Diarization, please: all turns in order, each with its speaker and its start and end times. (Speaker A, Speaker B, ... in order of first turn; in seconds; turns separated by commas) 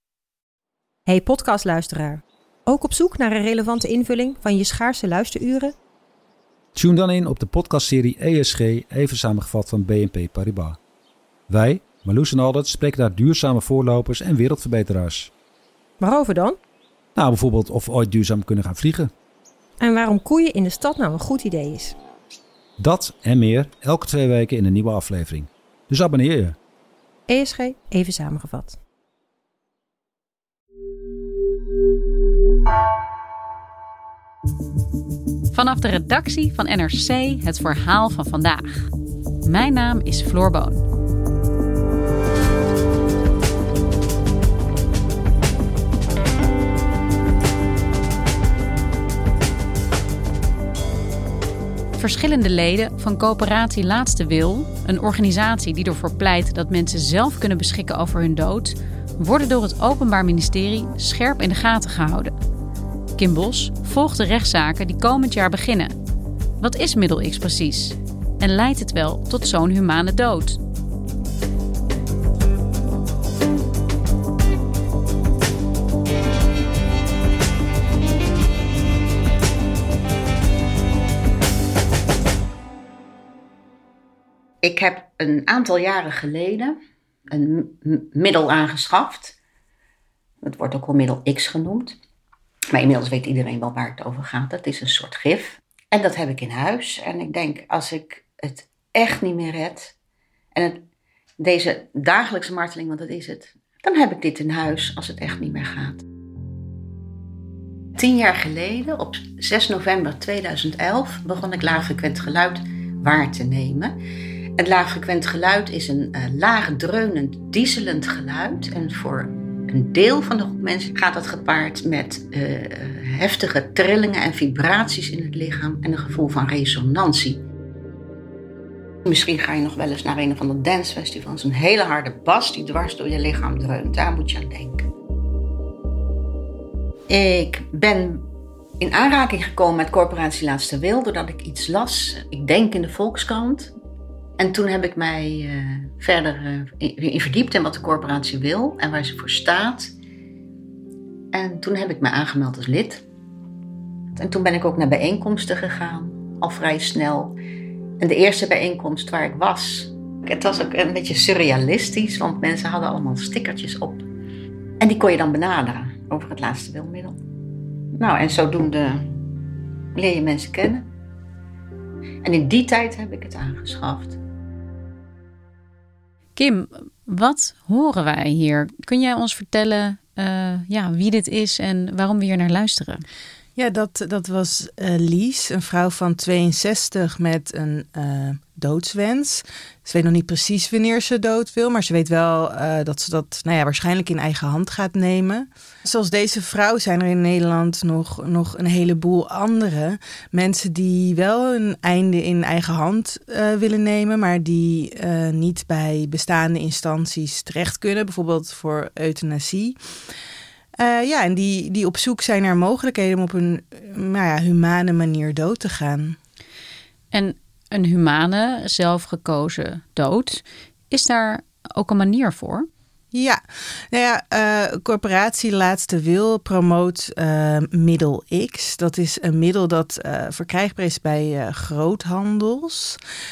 Speaker A: 1.1-5.8, Speaker B: 6.8-10.8, Speaker B: 11.5-15.3, Speaker A: 16.0-16.6, Speaker B: 17.2-19.1, Speaker A: 19.8-22.0, Speaker B: 22.8-26.6, Speaker A: 27.3-28.8, Speaker C: 35.5-38.9, Speaker C: 39.4-40.8, Speaker C: 52.0-62.3, Speaker C: 63.2-66.0, Speaker C: 66.6-70.6, Speaker D: 84.6-86.8, Speaker D: 87.3-89.4, Speaker D: 90.4-92.0, Speaker D: 92.7-99.9, Speaker D: 100.5-100.8, Speaker D: 101.4-106.0, Speaker D: 108.0-114.0, Speaker D: 114.6-127.4, Speaker D: 129.1-134.9, Speaker D: 137.1-138.2, Speaker D: 138.8-143.7, Speaker D: 144.4-149.9, Speaker D: 151.3-153.0, Speaker D: 154.2-157.4, Speaker D: 158.0-164.1, Speaker D: 164.8-167.2, Speaker D: 168.0-169.0, Speaker D: 169.9-170.9, Speaker D: 172.2-174.2, Speaker C: 176.4-183.0, Speaker E: 183.6-209.8, Speaker E: 210.8-216.2, Speaker C: 217.1-222.7, Speaker E: 223.1-223.4, Speaker E: 223.9-233.0